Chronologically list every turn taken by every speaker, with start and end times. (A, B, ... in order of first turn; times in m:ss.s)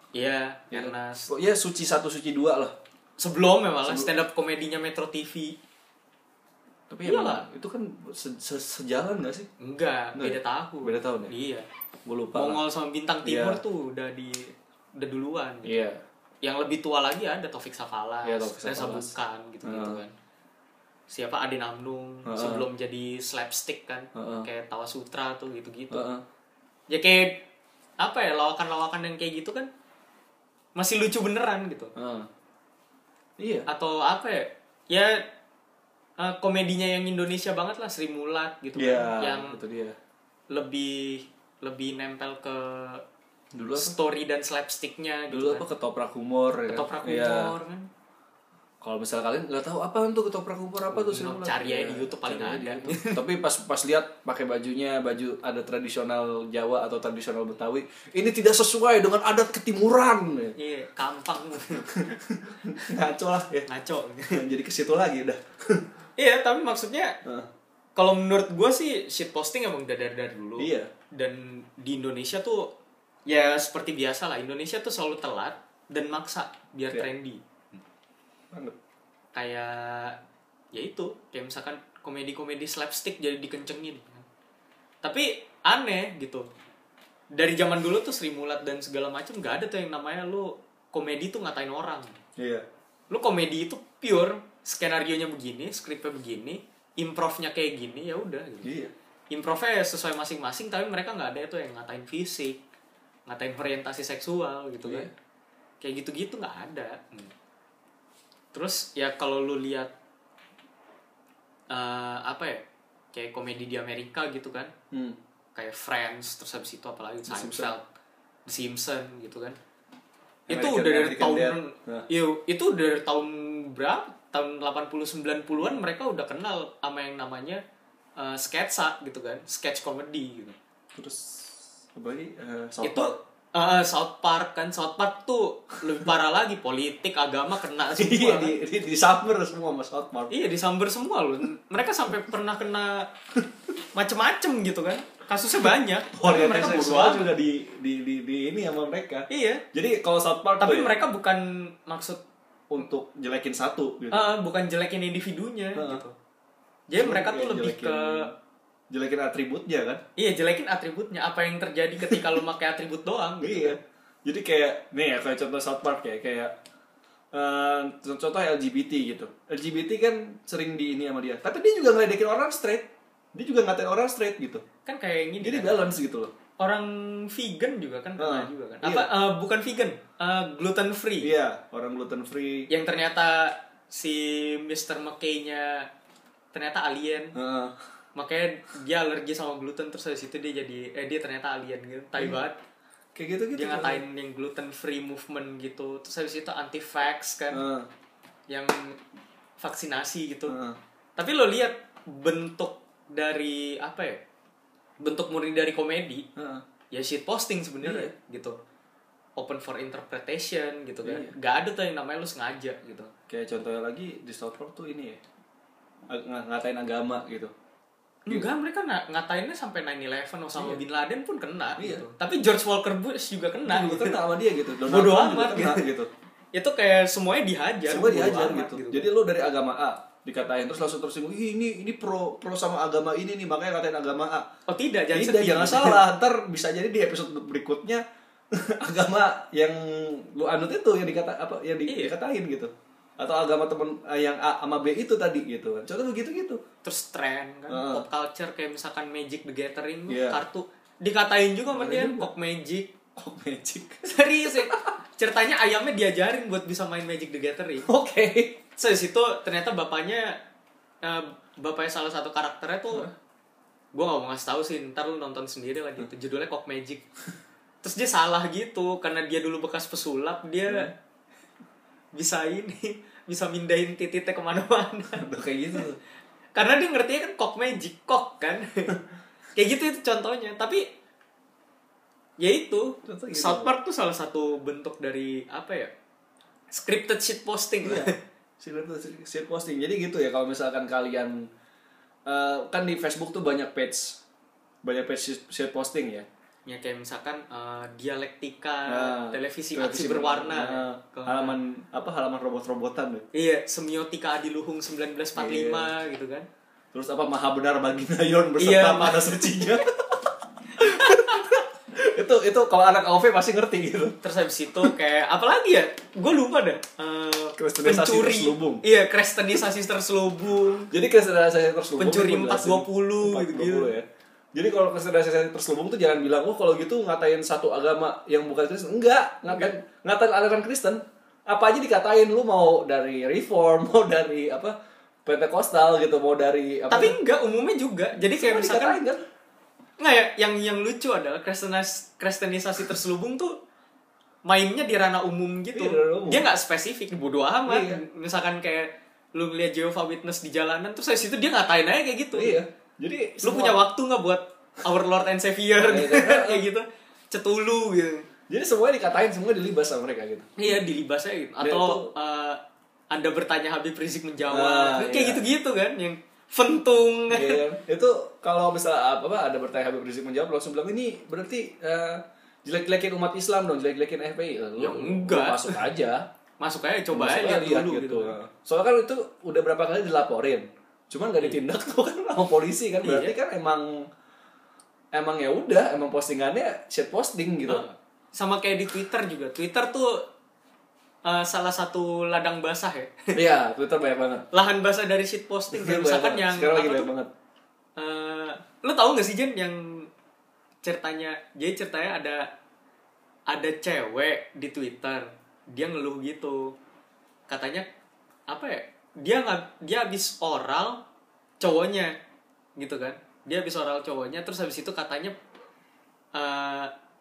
0:00.1-0:01.3 A
0:00.7-0:02.7 B
0:03.2-0:05.6 A
0:03.8-0:04.1 B
0:06.9-0:09.5 B
0:07.0-0:07.5 A
0:09.6-0:11.7 A
0:10.1-0:11.3 B
0:12.0-0:12.6 B
0:12.3-0:15.8 A
0:13.2-0:13.6 B
0:15.6-0:16.0 B
0:16.4-0:20.1 A
0:18.2-0:20.0 B
0:21.1-0:26.0 A
0:22.2-0:22.6 B
0:24.1-0:24.5 B
0:25.9-0:26.2 B
0:26.9-0:27.4 A
0:28.0-0:29.7 A
0:30.8-0:31.9 A
0:32.0-0:32.3 B
0:33.4-0:33.6 B
0:33.7-0:35.2 A
0:36.2-0:39.6 A
0:38.8-0:40.0 B
0:40.5-0:43.0 A
0:43.5-0:44.0 B
0:43.7-0:45.6 A
0:45.3-0:47.5 B
0:46.7-0:47.9 A
0:48.8-1:00.5 B
0:50.9-0:53.2 A
1:00.6-1:01.9 A
1:01.8-1:03.7 B
1:03.7-1:04.4 A
1:04.3-1:05.9 B
1:06.2-1:07.2 A
1:07.2-1:07.5 B
1:08.0-1:12.7 A
1:10.6-1:10.9 B
1:13.3-1:17.8 A
1:19.3-1:20.2 A
1:20.7-1:24.2 A
1:25.0-1:26.5 A
1:27.3-1:32.2 A
1:32.4-1:32.6 B
1:33.1-1:38.7 A
1:38.6-1:38.9 B
1:39.3-1:42.6 A
1:43.3-1:45.1 A
1:44.8-1:45.1 B
1:45.8-1:47.3 A
1:48.5-1:49.9 A
1:51.7-1:54.7 A
1:54.9-1:55.2 B
1:55.5-1:57.8 A
1:57.3-1:57.7 B
1:58.4-1:59.6 A
2:00.5-2:02.1 B
2:00.5-2:07.6 A
2:05.6-2:05.8 B
2:08.2-2:10.6 A
2:10.9-2:13.1 B
2:12.8-2:18.6 A
2:18.0-2:20.4 B
2:20.3-2:23.1 A
2:23.9-2:27.3 A
2:26.1-2:31.0 B
2:29.3-2:29.6 A
2:30.6-2:32.2 A
2:32.7-2:34.3 B
2:34.1-2:36.1 A
2:35.7-2:36.0 B
2:36.9-2:38.3 A
2:37.0-2:38.3 B
2:38.9-2:40.0 B
2:40.2-2:43.8 A
2:42.1-2:42.4 B
2:43.4-2:46.5 B
2:47.3-2:54.6 B
2:54.8-2:55.8 A
2:55.4-2:56.3 B
2:56.6-3:01.3 A
2:58.2-2:59.1 B
3:01.2-3:02.7 B
3:02.7-3:05.9 A
3:06.5-3:07.3 A
3:07.3-3:07.8 B
3:08.1-3:12.6 A
3:13.1-3:14.0 B
3:13.5-3:17.6 A
3:17.5-3:17.9 B
3:18.5-3:19.0 A
3:19.6-3:20.6 A
3:20.5-3:20.8 B
3:21.2-3:24.2 A
3:25.0-3:26.3 A
3:26.4-3:26.6 B
3:26.9-3:28.6 A
3:27.8-3:28.1 B
3:29.4-3:33.1 A
3:31.0-3:31.3 B
3:33.3-3:35.2 B
3:36.1-3:37.5 B
3:38.3-3:44.2 A
3:40.6-3:40.8 B
3:41.8-3:42.0 B
3:43.6-3:46.1 B
3:44.9-3:45.8 A
3:46.5-3:49.1 A
3:47.9-3:54.5 B
3:54.7-3:56.0 A
3:55.1-4:06.6 B
4:01.9-4:02.1 A
4:06.8-4:12.9 A
4:07.7-4:08.0 B
4:10.1-4:10.4 B
4:11.7-4:12.3 B
4:13.2-4:14.9 B
4:14.0-4:17.9 A
4:17.9-4:18.6 B
4:18.7-4:20.4 A
4:21.0-4:23.1 A
4:23.9-4:27.0 A
4:27.8-4:30.9 A
4:30.7-4:30.9 B
4:32.1-4:35.8 A
4:35.2-4:36.0 B
4:36.5-4:38.9 A
4:39.5-4:40.9 A
4:42.4-4:45.9 A
4:43.0-4:43.7 B
4:46.7-4:48.2 A
4:47.8-4:51.5 B
4:52.2-4:54.2 B
4:54.8-4:56.3 B
4:56.6-5:01.6 A
4:58.9-5:03.2 B
5:03.3-5:06.5 A
5:05.4-5:05.9 B
5:06.9-5:14.2 B
5:08.6-5:09.4 A
5:10.8-5:11.5 A
5:14.2-5:20.9 A
5:17.6-5:18.8 B
5:20.9-5:34.7 B
5:22.0-5:23.9 A
5:35.2-5:37.1 B
5:36.9-5:39.0 A
5:38.1-5:39.2 B
5:40.0-5:43.6 A
5:44.4-5:52.6 A
5:45.7-5:46.4 B
5:47.6-5:48.0 B
5:52.3-5:53.8 B
5:53.4-5:58.3 A
5:55.8-5:56.6 B
5:58.5-6:00.8 B
6:00.6-6:02.6 A
6:01.6-6:02.1 B
6:03.1-6:07.6 A
6:04.5-6:05.4 B
6:07.3-6:16.2 B
6:14.8-6:15.8 A
6:16.6-6:18.4 A
6:17.1-6:24.0 B
6:23.0-6:23.3 A
6:25.1-6:27.8 B
6:27.7-6:30.3 A
6:31.2-6:33.3 A
6:33.3-6:34.4 B
6:34.5-6:37.1 A
6:35.7-6:37.3 B
6:38.0-6:40.1 A
6:40.8-6:42.5 A
6:43.5-6:46.8 A
6:47.5-6:47.8 A
6:48.5-6:51.0 A
6:51.6-6:52.2 A
6:52.8-6:55.3 A
6:56.3-6:56.9 A